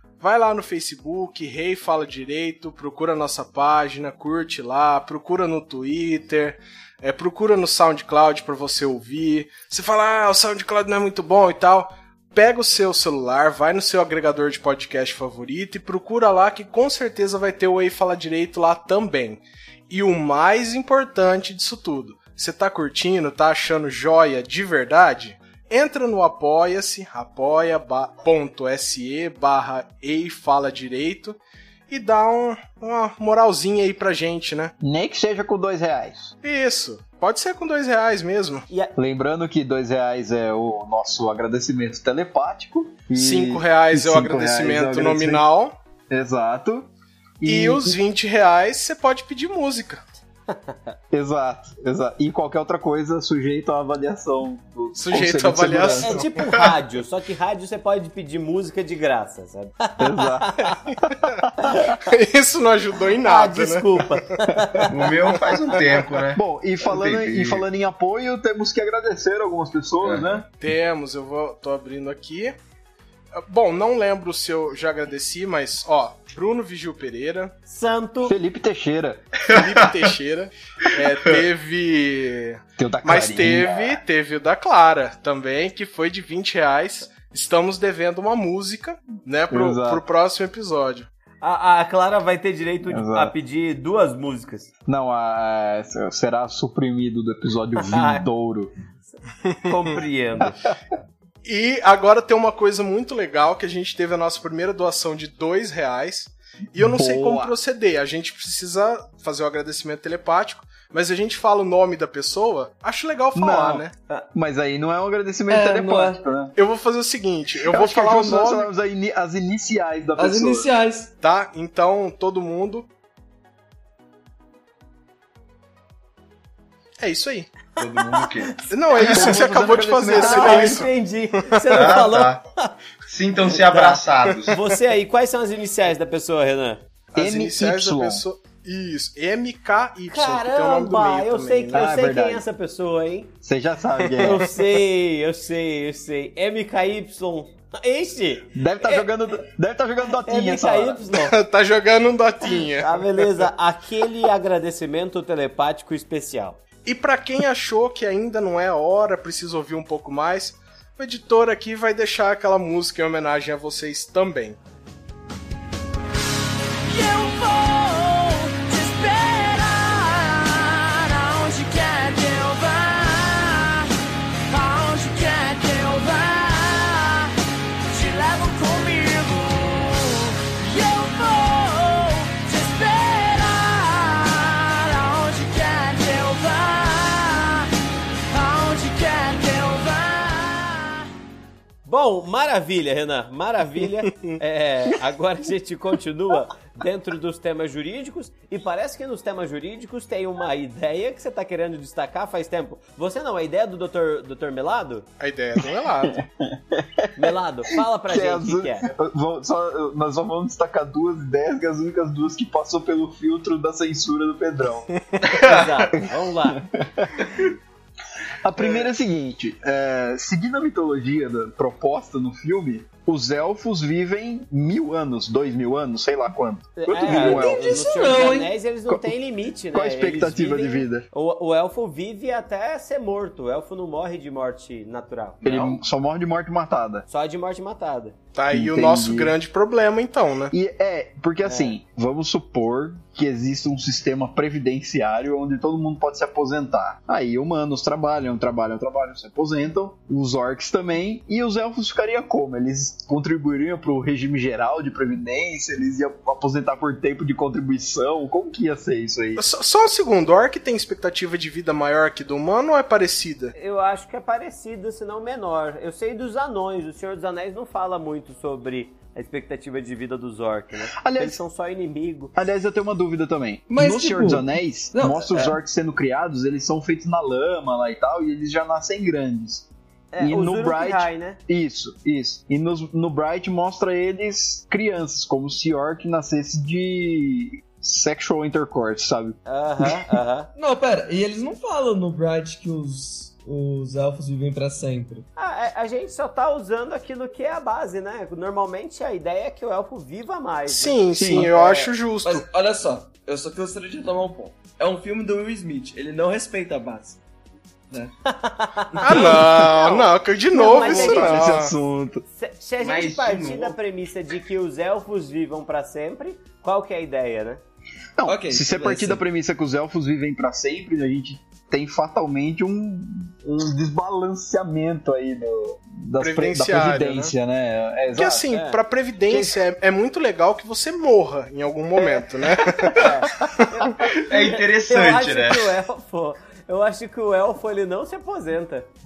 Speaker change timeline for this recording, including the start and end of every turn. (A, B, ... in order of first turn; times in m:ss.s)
0:00.2-0:31.4 A
0:31.9-0:34.7 A
0:34.8-0:36.3 B
0:36.4-0:38.6 A
0:39.0-0:45.4 B
0:43.1-0:45.7 A
0:46.1-0:46.9 B
0:47.4-0:48.0 B
0:47.4-0:50.0 A
0:50.5-0:51.0 C
0:51.1-0:56.2 B
0:55.0-0:56.3 A
0:55.9-1:00.8 C
1:00.0-1:00.6 B
1:00.8-1:01.4 A
1:01.5-1:01.8 B
1:01.6-1:02.0 C
1:01.9-1:03.9 A
1:03.2-1:04.9 C
1:04.5-1:04.9 B
1:04.9-1:07.6 D
1:06.3-1:10.5 B
1:10.0-1:10.3 D
1:10.6-1:12.6 A
1:13.4-1:17.5 A
1:17.7-1:18.4 C
1:18.2-1:19.4 B
1:19.5-1:19.8 D
1:19.5-1:31.1 A
1:22.8-1:24.0 B
1:29.5-1:30.0 B
1:31.4-1:34.7 C
1:32.9-1:33.3 B
1:34.9-1:38.7 B
1:37.8-1:38.2 C
1:39.1-1:40.6 C
1:41.4-1:53.9 A
1:46.8-1:47.5 B
1:53.3-1:56.6 B
1:55.5-1:56.2 E
1:56.6-1:58.7 A
1:57.6-2:00.7 B
2:00.2-2:01.1 E
2:01.2-2:02.9 A
2:07.0-2:07.5 A
2:07.8-2:08.6 D
2:08.1-2:09.5 C
2:08.7-2:10.9 A
2:09.1-2:10.9 B
2:10.1-2:12.7 C
2:11.7-2:12.4 D
2:13.1-2:14.6 D
2:13.5-2:16.8 C
2:17.1-2:21.9 A
2:17.2-2:18.2 B
2:20.1-2:23.4 C
2:21.7-2:22.4 B
2:23.4-2:24.5 B
2:24.2-2:29.1 C
2:28.6-2:31.0 B
2:30.2-2:31.4 C
2:31.2-2:33.5 A
2:32.4-2:36.6 C
2:36.9-2:44.6 A
2:46.9-2:53.9 F
2:54.5-2:57.3 F
2:57.9-3:07.7 F
3:08.3-3:11.1 F
3:11.9-3:25.1 C
3:14.1-3:14.4 A
3:25.2-3:26.2 A
3:25.6-3:27.1 B
3:27.2-3:28.9 C
3:28.1-3:34.9 B
3:35.2-3:35.9 D
3:35.4-3:36.6 C
3:36.6-3:37.5 B
3:38.4-3:47.8 B
3:46.8-3:55.8 C
3:47.0-3:48.5 E
3:49.7-3:51.0 B
3:55.4-3:57.1 B
3:57.1-3:58.2 C
3:58.4-4:00.5 A
3:58.5-3:59.4 B
4:00.5-4:19.4 B
4:01.4-4:01.8 C
4:19.4-4:23.5 A
4:23.6-4:32.3 C
4:31.0-4:31.4 B
4:32.3-4:39.7 B
4:33.7-4:35.6 E
4:40.1-4:41.4 C
4:40.2-4:50.0 B
4:49.4-4:50.5 C
4:50.6-4:55.3 E
4:55.4-5:01.9 C
5:00.7-5:02.5 A
5:01.2-5:01.5 B
5:02.2-5:07.2 E
5:08.2-5:11.5 C
5:08.9-5:09.2 E
5:09.0-5:11.7 A
5:10.6-5:12.2 B
5:12.3-5:17.6 C
5:12.8-5:13.8 D
5:18.2-5:28.5 B
5:18.3-5:19.2 E
5:26.2-5:27.3 A
5:28.1-5:33.6 A
5:28.5-5:28.8 C
5:29.3-5:29.6 B
5:32.0-5:32.2 C
5:33.0-5:38.9 C
5:34.0-5:35.7 D